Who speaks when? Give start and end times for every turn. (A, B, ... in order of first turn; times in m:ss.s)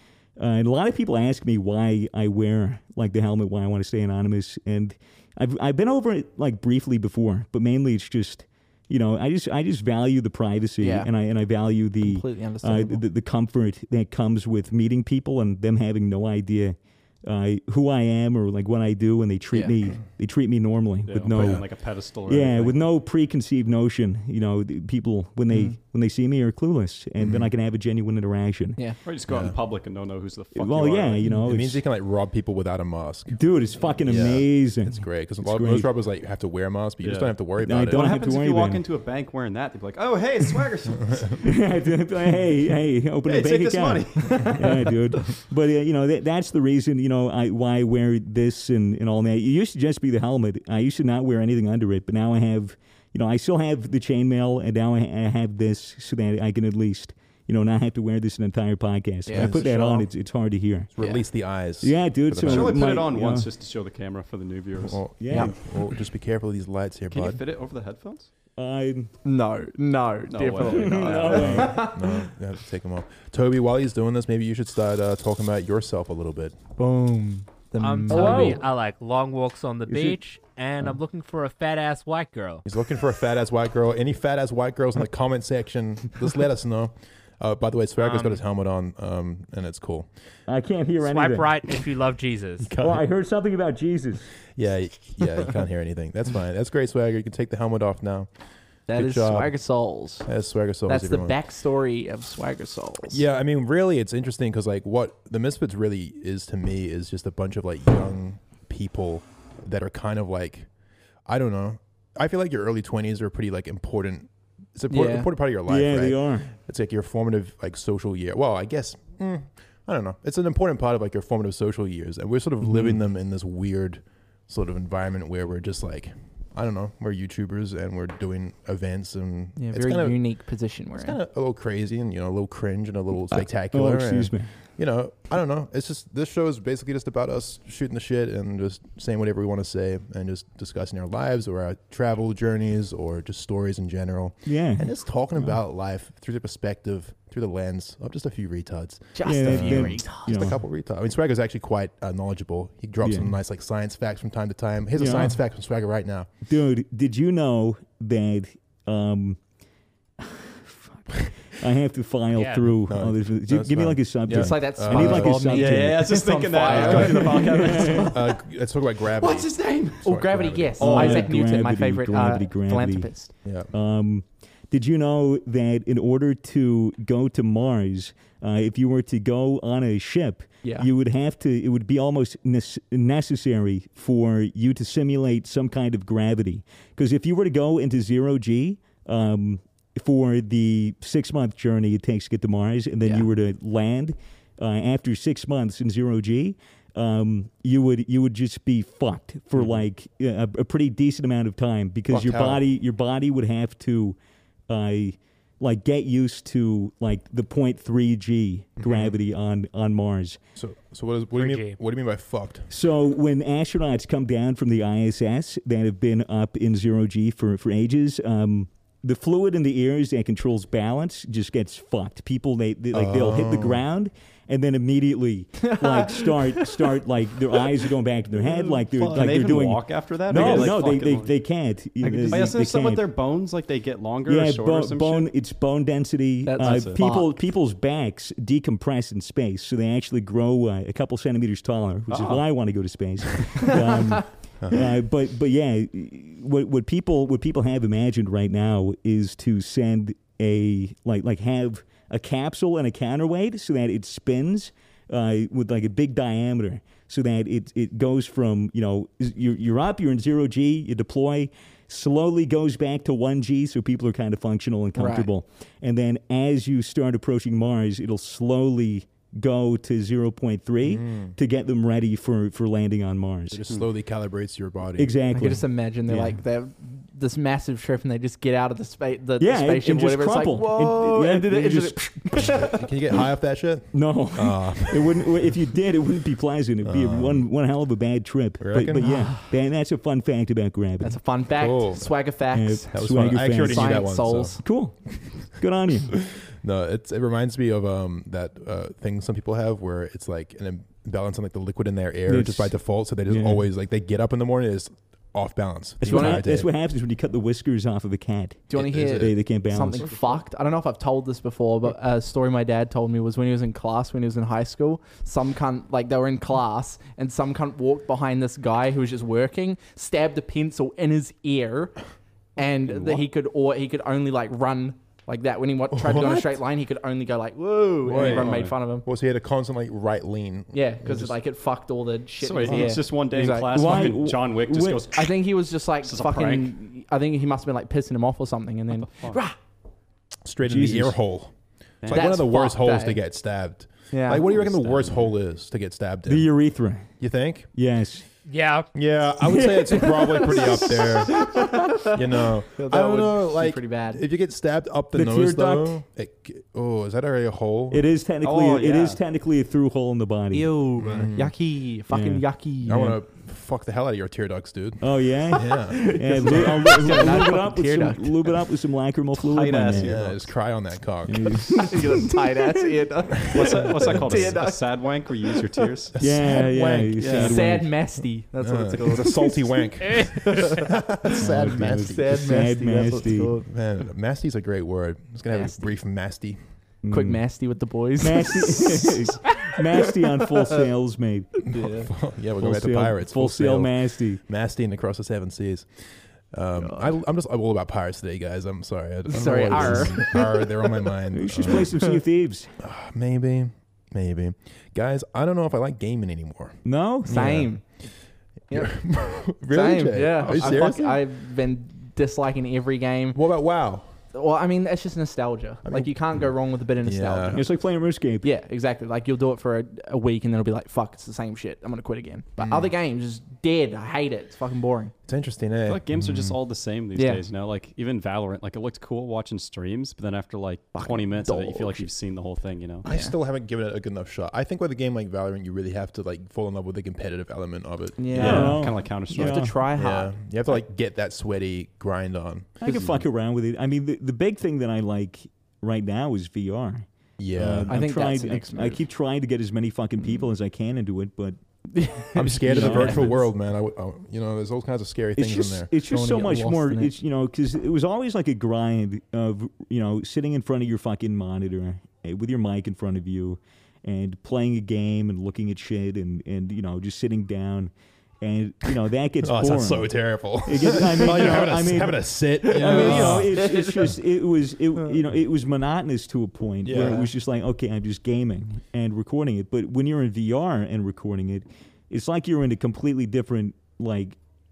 0:00.4-0:21.7 A
0:10.8-0:11.1 B
0:12.0-0:13.0 B
0:21.1-0:22.8 C
0:21.4-0:21.6 D
0:22.3-0:28.8 A
0:25.5-0:25.8 B
0:27.2-0:27.5 D
0:29.0-0:31.3 C
0:29.3-0:29.6 D
0:30.5-0:31.8 A
0:31.4-0:33.4 D
0:33.3-0:35.9 A
0:34.0-0:38.1 D
0:37.0-0:37.3 C
0:37.6-0:38.8 A
0:37.9-0:41.5 C
0:41.4-1:00.9 A
0:43.2-0:45.2 C
0:59.2-0:59.6 B
0:59.3-1:00.1 D
1:00.9-1:02.9 D
1:01.8-1:03.5 A
1:02.4-1:05.0 C
1:04.8-1:07.4 D
1:05.2-1:05.5 A
1:07.1-1:08.3 C
1:08.6-1:09.1 A
1:09.2-1:12.1 B
1:10.3-1:11.8 C
1:10.6-1:11.9 A
1:11.4-1:16.6 D
1:16.8-1:18.6 B
1:17.8-1:22.6 E
1:18.1-1:18.6 A
1:19.9-1:20.2 A
1:22.6-1:30.1 D
1:28.0-1:28.4 E
1:30.5-1:31.5 A
1:31.0-1:32.7 E
1:32.6-1:33.0 D
1:32.8-1:34.2 A
1:34.6-1:38.3 D
1:38.9-1:40.3 B
1:38.9-1:39.5 D
1:40.2-1:41.4 D
1:40.9-1:43.2 B
1:43.1-1:50.7 D
1:51.2-2:10.3 D
1:54.9-1:55.3 B
1:55.6-1:56.5 A
2:09.6-2:11.2 B
2:10.9-2:36.3 D
2:13.3-2:14.5 A
2:24.4-2:24.9 A
2:29.2-2:30.5 B
2:29.2-2:30.6 A
2:33.0-2:33.3 A
2:35.0-2:35.4 A
2:36.5-2:39.4 A
2:40.2-2:46.1 A
2:42.4-2:42.7 E
2:42.8-2:51.3 D
2:44.3-2:48.0 B
2:45.6-2:48.3 C
2:46.7-2:48.1 A
2:49.2-2:50.0 C
2:50.0-2:53.3 B
2:50.8-2:53.1 A
2:53.4-2:53.7 D
2:53.7-3:24.2 A
3:22.1-3:22.6 D
3:24.7-3:30.4 A
3:28.8-3:29.2 D
3:30.6-3:32.7 D
3:31.3-3:31.8 E
3:32.7-3:53.1 A
3:42.9-3:43.8 D
3:45.6-3:46.7 B
3:48.5-3:51.3 C
3:50.3-3:50.7 B
3:52.0-3:55.3 C
3:54.2-4:33.6 A
3:56.4-3:57.3 B
3:56.6-3:57.0 C
4:02.1-4:02.4 C
4:04.6-4:04.9 D
4:24.9-4:25.3 B
4:30.8-4:31.4 D
4:33.5-4:35.2 D
4:35.0-4:36.4 A
4:35.3-4:42.9 B
4:39.4-4:42.6 A
4:42.5-4:45.5 D
4:43.9-4:51.2 A
4:46.8-4:47.5 D
4:48.6-4:49.3 D
4:51.0-4:52.9 B
4:51.6-4:52.1 D
4:52.5-4:54.0 A
4:52.9-4:54.6 D
4:53.6-4:54.6 B
4:54.6-4:56.2 A
4:56.3-5:06.7 D
5:02.3-5:03.6 A
5:06.0-5:10.1 A
5:06.0-5:06.4 B
5:08.7-5:22.0 B
5:08.7-5:09.4 D
5:10.0-5:10.4 C
5:22.6-5:29.0 B
5:22.8-5:23.2 C
5:25.9-5:26.6 D
5:28.0-5:31.4 D
5:28.2-5:28.7 C
5:30.7-5:33.9 B
5:32.4-5:35.4 C
5:32.7-5:33.0 D
5:33.7-5:35.1 A
5:35.1-5:39.5 B
5:36.0-5:36.7 C
5:39.0-5:39.4 C
5:40.4-5:46.5 D
5:40.6-5:41.2 A
5:42.0-5:42.3 C
5:42.1-5:43.2 B
5:44.1-5:44.5 B
5:44.5-5:45.3 C
5:46.2-5:47.1 A
5:47.2-5:47.7 D
5:47.7-5:48.2 A
5:48.5-5:48.9 E
5:48.9-5:58.1 D
5:49.4-5:52.0 A
5:50.1-5:52.2 B
5:52.7-5:54.2 B
5:55.1-5:56.0 A
5:57.9-6:01.2 A
5:58.4-5:59.2 C
6:00.5-6:03.2 B
6:01.0-6:01.5 D
6:02.1-6:03.1 A
6:02.8-6:06.1 D
6:05.0-6:10.2 A
6:05.8-6:08.5 B
6:09.3-6:10.4 C
6:10.0-6:11.8 D
6:11.2-6:12.7 A
6:11.7-6:15.5 B
6:13.4-6:16.1 C
6:16.1-6:17.6 D
6:16.2-6:17.9 A
6:17.2-6:17.6 C
6:17.3-6:20.9 B
6:18.6-6:22.3 D
6:21.4-6:23.6 A
6:22.0-6:23.7 B
6:23.7-6:26.6 D
6:25.5-6:25.9 B
6:27.0-6:27.4 A
6:27.1-6:30.8 B
6:28.2-6:31.6 A
6:31.6-6:35.9 D
6:31.7-6:32.1 B
6:32.6-6:34.4 A
6:36.5-6:42.0 D
6:36.8-6:37.1 B
6:39.3-6:40.7 B
6:39.7-6:40.1 A
6:41.3-6:42.7 A
6:41.9-6:42.2 B
6:42.8-6:47.7 D
6:46.8-6:47.5 A
6:47.3-6:47.8 B
6:48.7-6:49.0 B
6:48.7-6:51.2 D
6:49.7-6:53.4 B
6:53.3-6:54.1 D
6:54.3-6:57.7 B
6:55.8-6:56.5 D
6:57.0-6:57.6 D
6:57.5-6:58.5 A
6:58.4-7:05.1 B
7:02.6-7:02.9 D
7:05.2-7:06.6 D
7:05.9-7:13.0 C
7:07.1-7:07.4 B
7:10.9-7:12.1 B
7:13.0-7:18.8 D
7:13.1-7:13.3 B
7:18.2-7:20.4 B
7:18.3-7:19.7 C
7:18.4-7:19.8 A
7:19.9-7:23.2 D
7:22.8-7:31.6 A
7:22.8-7:23.1 B
7:27.4-7:28.0 D
7:27.9-7:29.0 B
7:31.9-7:33.4 B
7:32.3-7:35.9 D
7:32.7-7:33.4 A
7:35.4-8:04.4 A
7:36.0-7:37.1 B
7:49.4-7:53.8 D
7:52.7-7:54.1 B
7:56.8-7:57.3 D